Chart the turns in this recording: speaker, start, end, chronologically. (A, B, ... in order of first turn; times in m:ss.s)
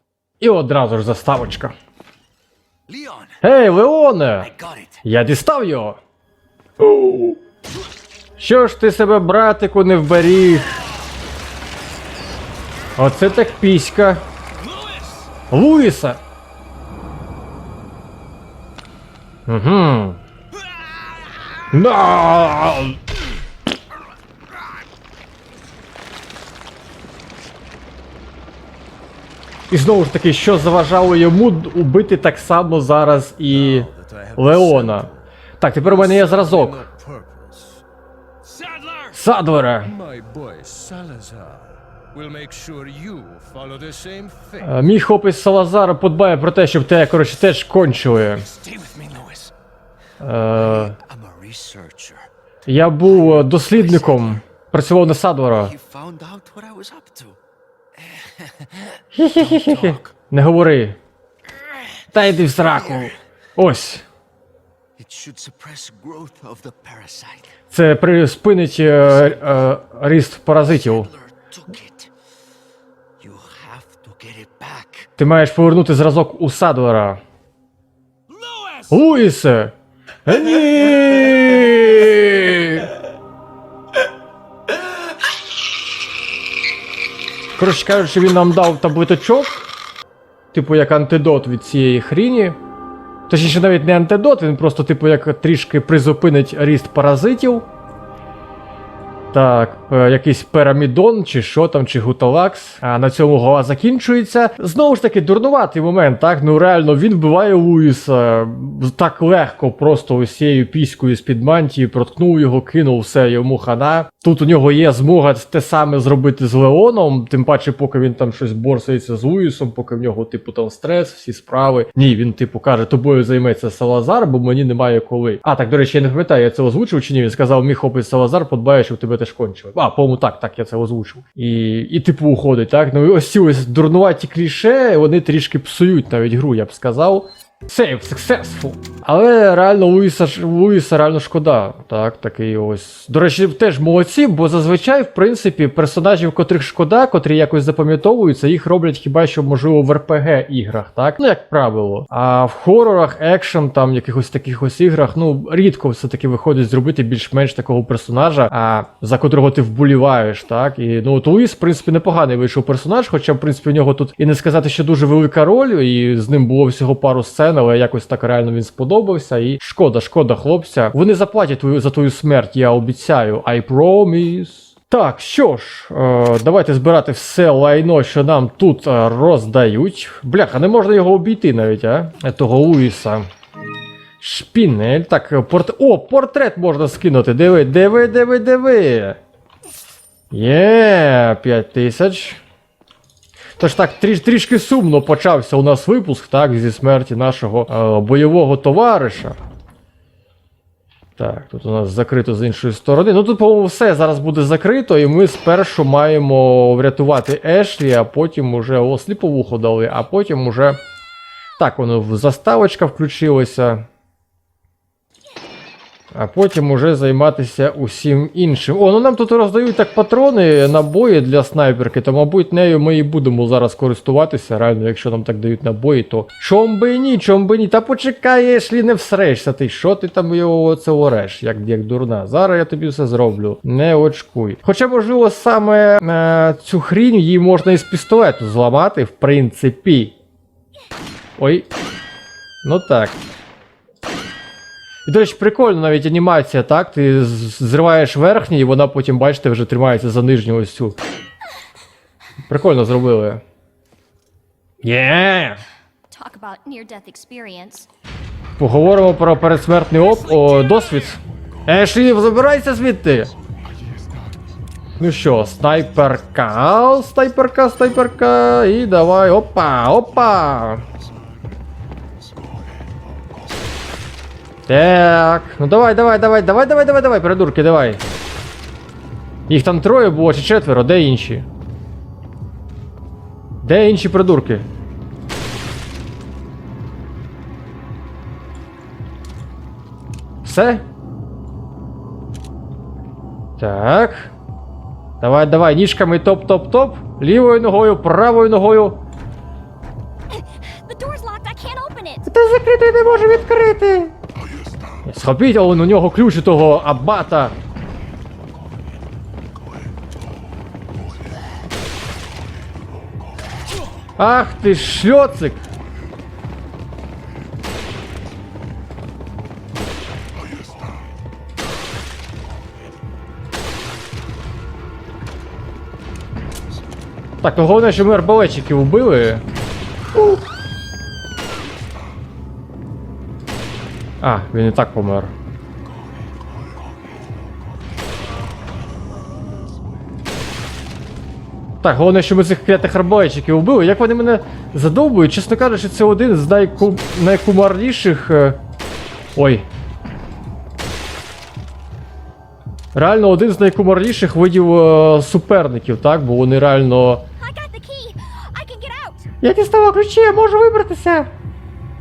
0:00.4-0:01.7 A
0:02.9-0:03.4 B
0:03.4-0:04.5 A
0:04.4-0:05.0 B
0:05.0-0:06.0 A
0:06.8-0:07.4 A
0:08.4-0:10.8 A
0:13.0-0:14.2 A
0:14.8-0:15.3 B
0:15.5-0:16.2 A
0:19.5-0:20.2 A
0:21.7-0:23.0 A
0:29.7-0:36.9 A
0:33.5-0:35.2 B
0:35.8-0:37.8 B
0:38.4-0:39.2 B
0:39.1-0:39.9 A
0:39.8-0:44.8 B
0:44.6-0:48.5 A
0:48.5-0:49.5 B
0:50.2-0:51.0 A
0:50.6-0:52.3 B
0:52.7-0:55.7 A
0:53.1-0:54.4 B
0:55.5-0:57.4 B
0:58.0-1:00.1 B
0:59.1-1:01.0 A
1:02.1-1:04.0 A
1:02.6-1:03.2 B
1:05.0-1:07.6 B
1:07.7-1:11.1 A
1:09.0-1:09.7 B
1:10.7-1:12.1 B
1:13.2-1:15.1 B
1:15.2-1:17.2 A
1:18.3-1:18.9 B
1:18.9-1:19.7 A
1:20.2-1:22.9 A
1:27.6-1:29.7 A
1:30.5-1:32.6 A
1:33.3-1:37.7 A
1:39.3-3:03.3 A
3:04.2-3:09.2 A
3:10.3-3:12.4 A
3:13.6-3:19.4 A
3:21.2-3:30.8 A
3:31.6-3:33.8 A
3:36.1-4:00.1 A
4:01.4-4:01.7 A
4:02.6-4:03.2 A
4:05.0-4:11.0 A
4:12.5-4:13.4 A
4:14.8-4:15.6 A
4:16.1-4:17.9 C
4:18.6-4:23.3 A
4:20.1-4:21.0 C
4:23.4-4:24.4 B
4:25.0-4:30.8 A
4:32.4-4:32.8 B
4:34.7-4:38.0 A
4:39.5-4:41.4 A
4:43.6-4:44.6 A
4:50.4-4:50.8 A
4:53.6-4:54.3 A
4:55.2-4:59.0 A
5:00.3-5:02.2 C
5:02.2-5:04.1 A
5:05.0-5:07.5 A
5:14.2-5:15.6 A
5:27.4-5:29.4 A
5:34.2-5:35.3 A
5:36.2-5:37.2 B
5:41.8-5:48.6 A
5:49.4-5:49.6 A
5:52.9-5:57.2 A
5:57.4-5:59.2 C
5:59.4-6:01.3 A